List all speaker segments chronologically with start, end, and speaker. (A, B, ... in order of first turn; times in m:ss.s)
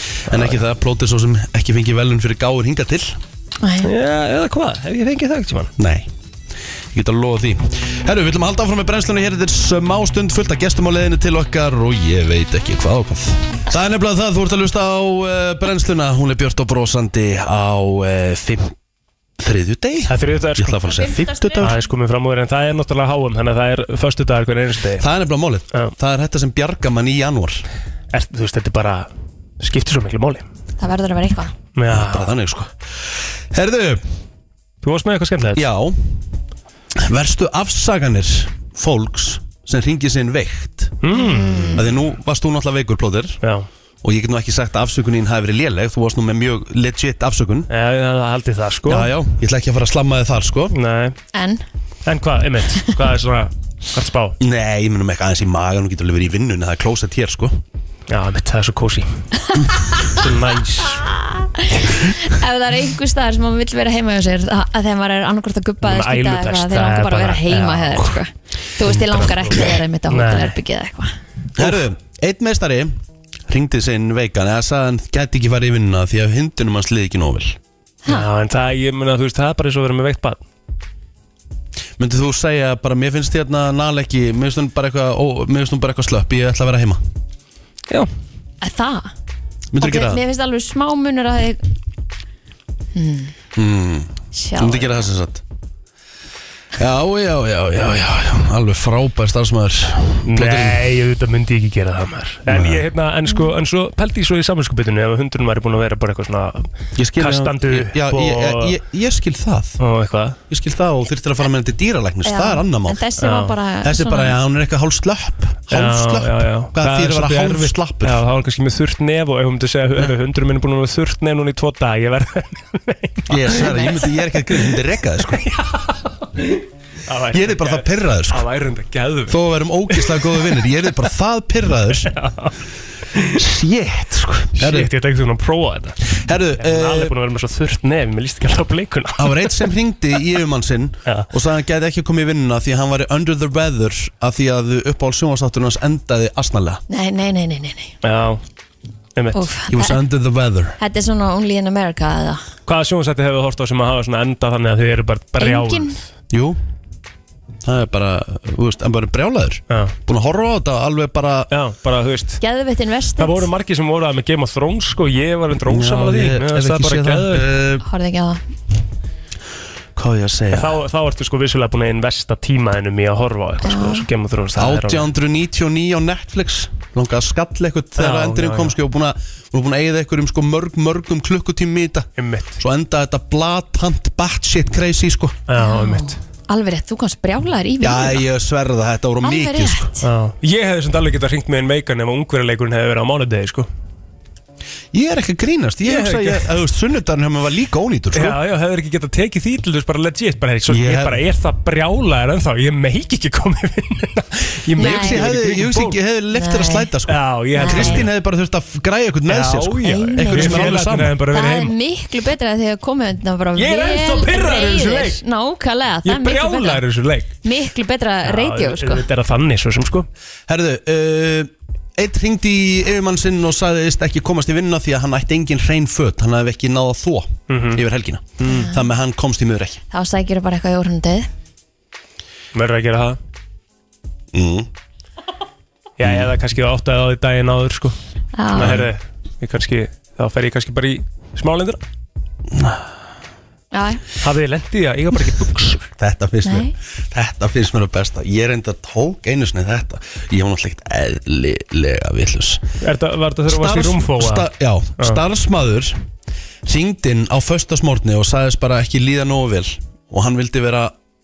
0:00.3-0:03.2 A
0:00.3-0:00.6 B
0:03.6-0:03.9 C
0:03.8-0:05.7 B
0:05.8-0:06.1 A
0:06.9-0:18.8 A
0:19.4-0:21.8 A
0:20.1-0:20.8 B
0:20.9-0:21.7 C
0:21.6-0:25.1 B
0:25.0-0:27.6 A
0:28.1-0:29.1 B
0:29.6-0:30.4 B
0:30.8-0:31.5 C
0:31.8-0:32.3 B
0:31.9-0:34.0 A
0:34.8-0:35.6 B
0:35.5-0:36.2 A
0:37.0-0:41.0 A
0:41.0-0:41.8 B
0:41.1-0:41.8 C
0:41.7-0:43.4 A
0:43.4-0:43.7 B
0:44.0-0:47.7 A
0:47.7-0:49.1 B
0:48.9-0:50.7 A
0:50.7-0:51.2 B
0:51.3-0:51.6 C
0:52.0-0:54.4 B
0:54.4-0:57.6 A
0:58.1-0:59.1 B
1:00.0-1:01.0 B
1:00.9-1:11.2 C
1:05.8-1:08.2 B
1:08.8-1:10.6 B
1:11.6-1:12.9 A
1:13.5-1:17.6 A
1:18.1-1:20.4 B
1:22.0-1:27.0 A
1:28.6-1:29.1 C
1:29.7-1:30.2 A
1:29.8-1:31.6 C
1:32.9-1:33.3 C
1:33.6-1:35.4 A
1:34.3-1:35.0 C
1:36.8-1:40.9 A
1:40.3-1:48.8 B
1:42.5-1:42.8 A
1:47.0-1:49.8 A
1:49.8-1:50.4 B
1:50.5-1:53.0 A
1:52.2-1:54.4 C
1:53.2-1:53.6 B
1:53.8-1:58.2 A
1:55.7-2:03.9 B
2:03.3-2:05.4 A
2:03.5-2:04.0 C
2:04.5-2:10.7 B
2:07.3-2:08.4 A
2:09.3-2:12.1 A
2:12.1-2:12.6 B
2:13.1-2:13.4 B
2:13.3-2:14.9 A
2:14.6-2:16.0 B
2:16.1-2:17.1 A
2:16.6-2:19.6 B
2:19.2-2:26.8 A
2:26.9-2:27.9 C
2:28.0-2:28.4 B
2:29.2-2:29.4 B
2:29.3-2:30.0 C
2:29.7-2:30.8 A
2:30.8-2:32.4 C
2:32.6-2:36.0 B
2:35.4-2:36.0 C
2:36.3-2:36.6 A
2:37.6-2:41.5 A
2:39.7-2:39.9 B
2:41.5-2:42.4 B
2:42.4-2:43.5 C
2:43.2-2:47.4 B
2:45.6-2:47.8 A
2:47.8-2:48.4 C
2:50.0-2:50.8 A
2:50.5-2:55.1 B
2:53.6-2:54.0 C
2:54.6-3:05.4 A
2:58.0-2:58.7 B
3:02.2-3:02.6 B
3:05.5-3:06.2 B
3:05.6-3:08.2 C
3:07.8-3:09.9 A
3:09.2-3:10.0 C
3:10.0-3:13.7 B
3:14.9-3:18.4 A
3:15.8-3:16.4 B
3:18.1-3:26.0 B
3:20.7-3:21.2 A
3:24.8-3:31.2 A
3:24.8-3:25.2 C
3:26.3-3:26.9 C
3:27.1-3:28.1 B
3:27.5-3:28.0 C
3:29.3-3:31.7 B
3:29.8-3:30.8 C
3:31.3-3:36.8 C
3:33.6-3:35.2 B
3:36.0-3:37.4 B
3:37.4-3:39.0 C
3:38.2-3:40.1 B
3:40.5-3:49.8 A
3:47.5-3:47.8 B
3:48.4-3:48.7 B
3:48.4-3:48.8 C
3:49.9-3:51.3 C
3:52.5-3:53.2 B
3:54.3-3:54.7 A
3:56.0-3:57.9 B
3:56.0-3:56.3 A
3:58.4-3:58.8 C
3:58.5-4:01.8 B
3:58.6-3:58.9 A
4:02.5-4:02.8 A
4:03.7-4:04.0 C
4:04.2-4:05.9 B
4:06.0-4:12.6 A
4:06.4-4:06.7 C
4:12.8-4:15.2 B
4:13.5-4:16.0 A
4:16.6-4:20.9 A